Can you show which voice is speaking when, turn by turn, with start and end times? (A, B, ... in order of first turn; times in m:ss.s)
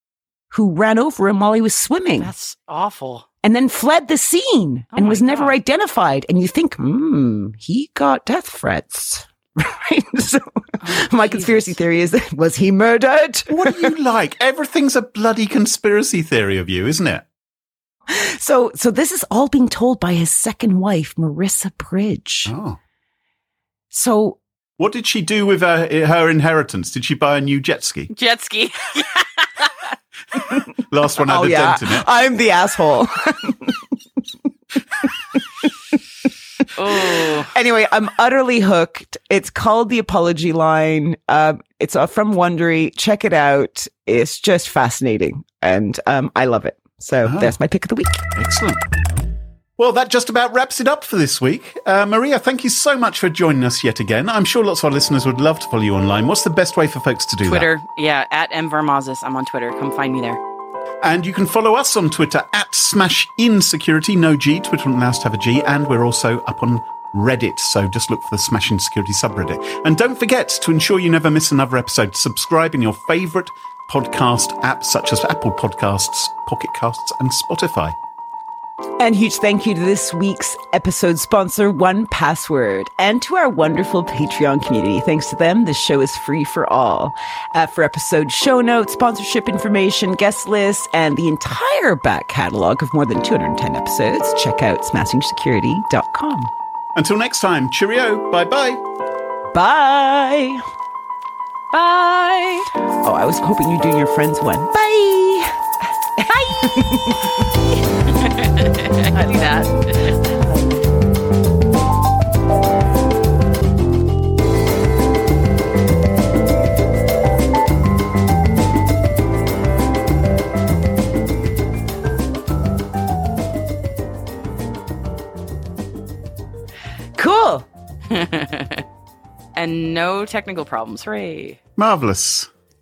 0:00.5-0:02.3 A
0:02.2-0:03.2 B
0:03.4-0:13.9 A
0:04.9-0:05.5 B
0:10.8-0:11.8 B
0:13.5-0:17.2 C
0:18.1-0:22.5 A
0:22.5-0:22.8 C
0:23.9-0:24.4 A
0:24.8-0:28.1 C
0:28.1-0:29.8 B
0:30.7-0:32.1 C
0:31.2-0:33.9 A
0:35.0-0:35.7 A
0:36.7-0:37.5 B
0:36.8-0:48.2 A
0:47.2-0:47.6 C
0:48.3-0:48.8 C
0:49.8-0:57.7 C
0:57.4-1:00.4 B
1:01.0-1:18.0 C
1:19.0-1:36.5 A
1:36.9-1:38.8 C
1:39.5-1:40.6 A
1:41.7-1:42.7 B
1:43.0-1:47.8 A
1:48.1-1:50.1 B
1:49.1-1:50.7 A
2:07.2-2:07.7 A
2:08.1-2:08.8 B
2:09.6-2:11.6 B
2:11.8-2:12.5 C